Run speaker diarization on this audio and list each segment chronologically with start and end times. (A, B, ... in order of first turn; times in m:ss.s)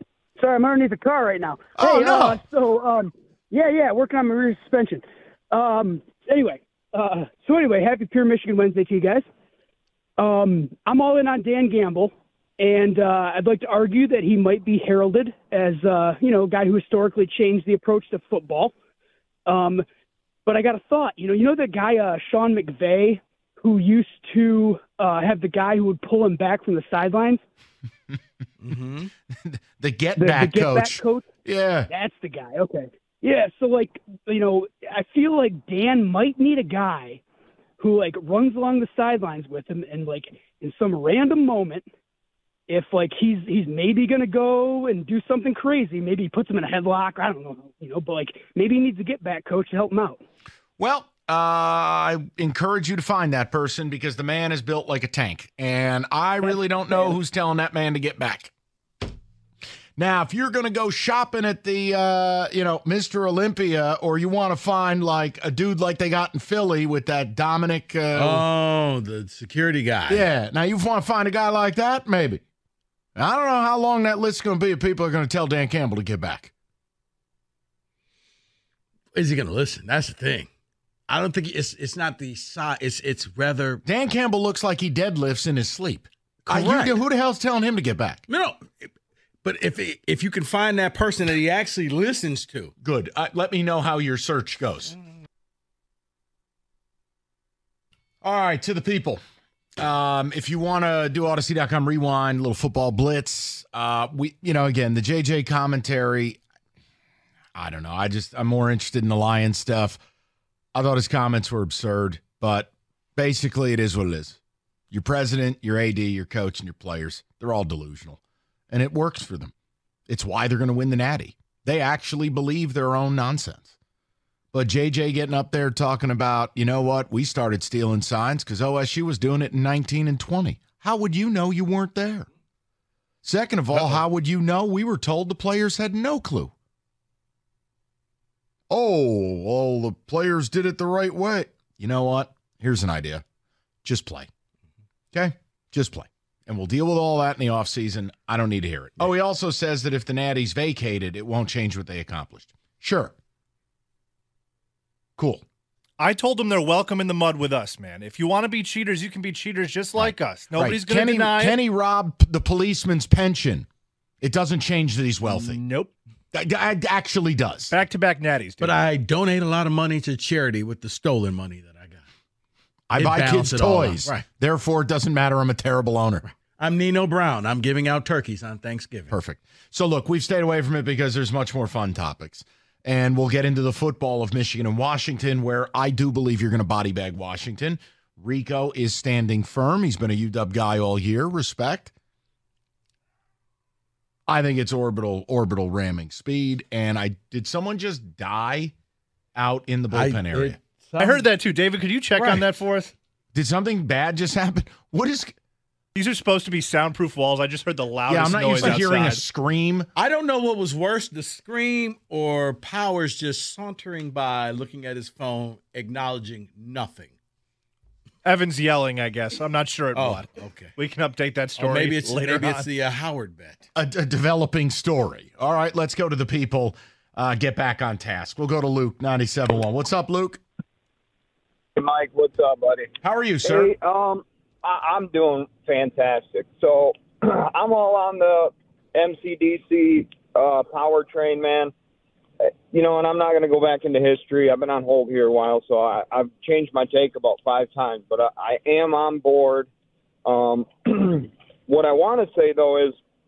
0:00.4-0:09.3 A
0:01.8-0:02.4 B
0:10.2-0:18.8 A
0:19.5-0:19.8 A
0:20.4-0:27.4 A
0:28.6-0:29.1 C
0:29.3-0:31.9 B
0:30.2-0:31.3 A
0:31.9-0:37.2 A
0:37.8-0:41.9 A
0:42.7-0:50.2 A
0:50.8-0:58.5 B
1:00.0-1:08.4 B
1:08.1-1:10.3 C
1:10.1-1:12.4 B
1:13.2-1:16.5 B
1:19.1-1:20.5 C
1:21.1-1:23.8 C
1:23.8-1:28.2 B
1:26.4-1:27.0 C
1:28.3-1:28.9 C
1:29.4-1:32.7 C
1:32.8-1:34.9 B
1:38.2-1:39.2 B
1:39.8-1:46.4 B
1:47.6-1:50.0 B
1:50.7-1:54.4 B
1:54.9-1:58.2 B
1:58.7-1:59.5 B
2:00.1-2:03.7 B
2:04.5-2:12.3 B
2:13.2-2:16.5 B
2:18.7-2:23.2 B
2:23.8-2:24.3 B
2:25.1-2:33.1 B
2:35.2-2:35.4 B
2:36.0-2:41.6 D
2:39.9-2:43.6 B
2:44.2-2:45.6 B
2:45.3-2:45.9 D
2:46.3-2:47.7 B
2:47.7-2:48.8 D
2:48.6-2:52.0 C
2:52.9-2:56.2 B
2:53.0-2:54.2 C
2:56.2-2:59.1 C
2:59.1-3:11.9 B
3:14.3-3:18.7 B
3:19.4-3:20.6 B
3:19.9-3:21.3 C
3:21.0-3:22.9 D
3:22.2-3:22.4 B
3:23.3-3:25.3 B
3:25.9-3:29.2 D
3:28.1-3:29.9 B
3:28.6-3:28.9 C
3:29.9-3:37.1 C
3:38.2-3:42.7 D
3:39.9-3:40.7 C
3:41.6-3:43.6 C
3:43.8-3:50.4 B
3:51.8-4:01.7 E
3:53.0-3:53.7 B
4:02.7-4:09.7 E
4:10.3-4:13.0 E